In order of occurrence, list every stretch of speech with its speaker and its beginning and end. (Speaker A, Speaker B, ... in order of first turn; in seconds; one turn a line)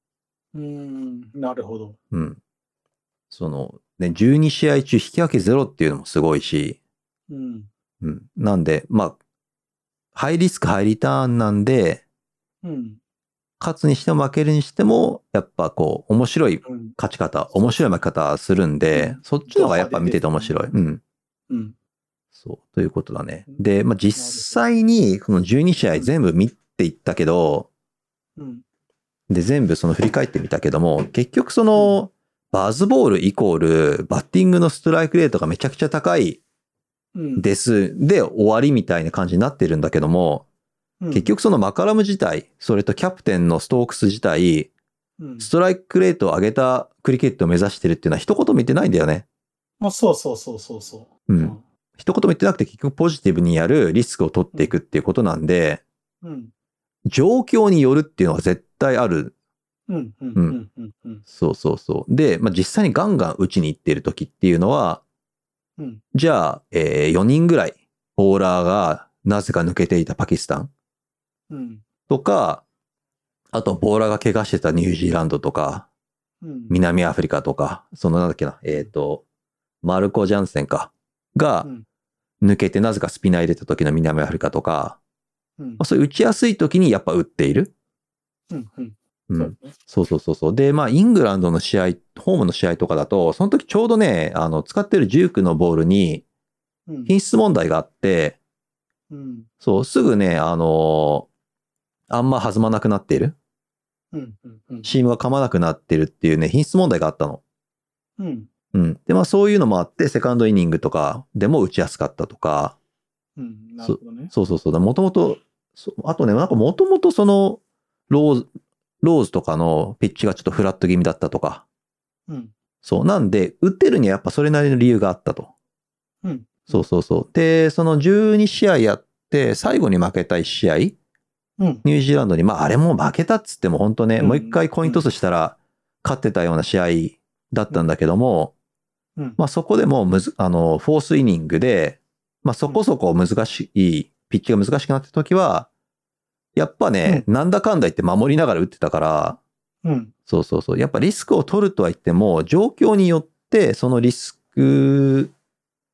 Speaker A: 0.5-2.0
Speaker B: 2.1-2.4
Speaker B: 3.3-6.8
Speaker A: 7.3-7.7
Speaker B: 8.0-9.2
Speaker B: 10.1-12.0
Speaker A: 12.6-13.0
Speaker B: 13.6-21.0
Speaker A: 16.6-17.0
Speaker A: 17.5-18.1
Speaker A: 18.9-20.8
Speaker A: 21.5-21.8
Speaker B: 22.4-27.7
Speaker A: 23.5-24.6
Speaker A: 28.4-28.6
Speaker B: 29.3-36.4
Speaker A: 31.7-32.0
Speaker A: 37.1-37.5
Speaker B: 37.4-40.5
Speaker A: 41.0-41.3
Speaker B: 41.1-44.7
Speaker A: 45.2-45.5
Speaker B: 45.4-49.2
Speaker A: 49.8-51.6
Speaker B: 51.3-55.8
Speaker A: 56.2-56.5
Speaker B: 57.0-59.3
Speaker A: 59.9-61.2
Speaker B: 61.3-65.0
Speaker A: 65.8-66.0
Speaker B: 66.1-70.7
Speaker A: 71.5-71.8
Speaker B: 72.1-72.6
Speaker B: 73.5-75.9
Speaker A: 76.4-76.8
Speaker B: 76.7-79.2
Speaker B: 79.8-81.7
Speaker B: 82.4-85.0
Speaker A: 85.6-85.8
Speaker B: 85.8-87.7
Speaker A: 88.5-89.8
Speaker B: 89.3-96.2
Speaker A: 96.9-97.1
Speaker B: 97.1-98.4
Speaker A: 99.1-99.5
Speaker B: 99.6-101.3
Speaker B: 102.1-103.3
Speaker A: 104.1-104.9
Speaker B: 104.8-107.4
Speaker A: 108.2-108.5
Speaker B: 108.7-112.8
Speaker A: 113.4-114.3
Speaker B: 113.8-118.5
Speaker B: 119.0-121.6
Speaker A: 122.3-122.5
Speaker B: 122.8-125.5
Speaker A: 126.2-126.9
Speaker B: 126.7-130.9
Speaker A: 131.6-131.8
Speaker B: 131.8-138.5
Speaker A: 134.2-135.1
Speaker B: 139.4-145.7
Speaker B: 146.5-149.4
Speaker A: 149.8-150.1
Speaker B: 150.3-155.3